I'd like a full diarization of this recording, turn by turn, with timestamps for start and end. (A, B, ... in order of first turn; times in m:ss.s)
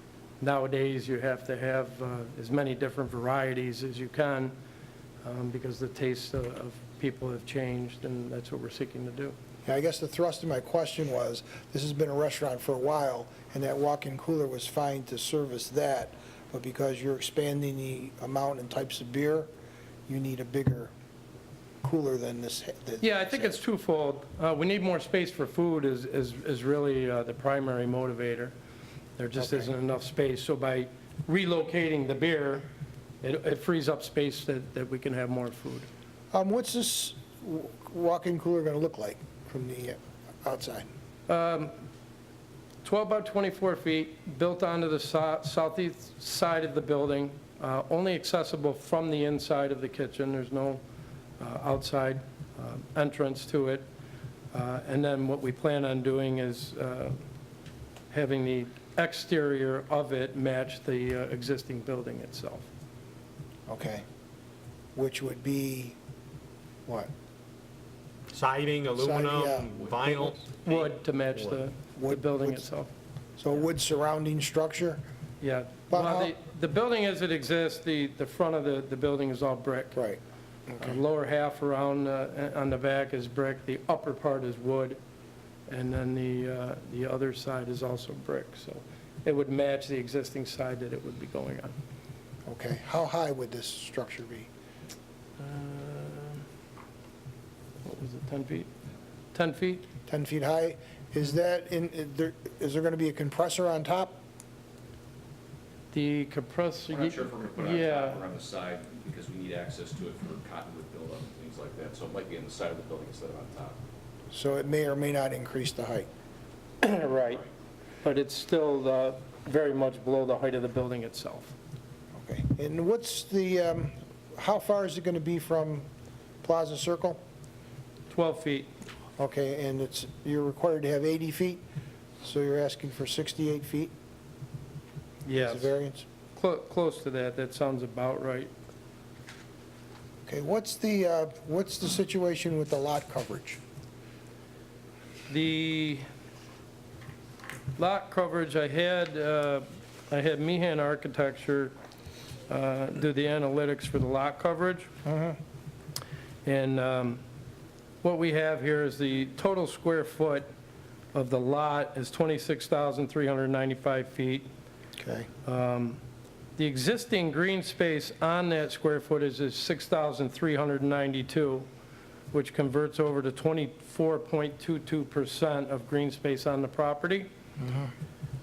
0:00.4-0:04.5 A
0:05.2-0:09.4 A
0:09.6-0:19.5 B
0:20.1-0:20.9 B
0:21.8-0:23.6 B
0:23.0-0:28.5 A
0:29.2-0:32.7 A
0:29.4-0:29.7 B
0:33.2-0:35.9 A
0:36.3-0:40.9 B
0:41.3-0:41.7 A
0:42.8-0:50.8 A
0:51.4-0:53.8 A
0:54.5-0:57.2 A
0:58.1-1:02.7 A
1:03.7-1:04.0 B
1:04.9-1:06.0 B
1:06.8-1:07.1 B
1:08.3-1:10.7 C
1:09.0-1:10.4 B
1:10.6-1:12.9 A
1:12.0-1:12.6 B
1:13.4-1:15.0 B
1:15.4-1:20.0 A
1:15.9-1:16.3 B
1:19.9-1:21.0 B
1:20.8-1:25.0 A
1:25.7-1:31.7 A
1:32.4-1:34.5 B
1:35.4-1:36.4 A
1:37.8-1:38.7 A
1:39.3-1:39.8 A
1:40.1-1:44.2 B
1:45.9-1:48.2 A
1:46.9-1:53.8 D
1:54.3-1:56.1 B
1:56.8-1:57.4 A
1:58.0-2:01.5 A
2:02.1-2:05.9 B
2:06.4-2:07.2 B
2:08.1-2:08.7 A
2:09.2-2:11.6 B
2:12.2-2:13.9 B
2:15.2-2:15.7 A
2:15.3-2:16.0 B
2:16.3-2:18.5 A
2:20.2-2:23.6 B
2:25.3-2:26.0 A
2:27.8-2:31.7 A
2:32.5-2:34.9 A
2:35.0-2:35.4 B
2:36.4-2:37.2 A
2:38.0-2:40.5 A
2:41.1-2:44.5 A
2:45.0-2:45.3 B
2:45.4-2:46.0 A
2:46.6-2:51.7 A
2:52.3-2:57.3 A
2:57.6-2:57.9 B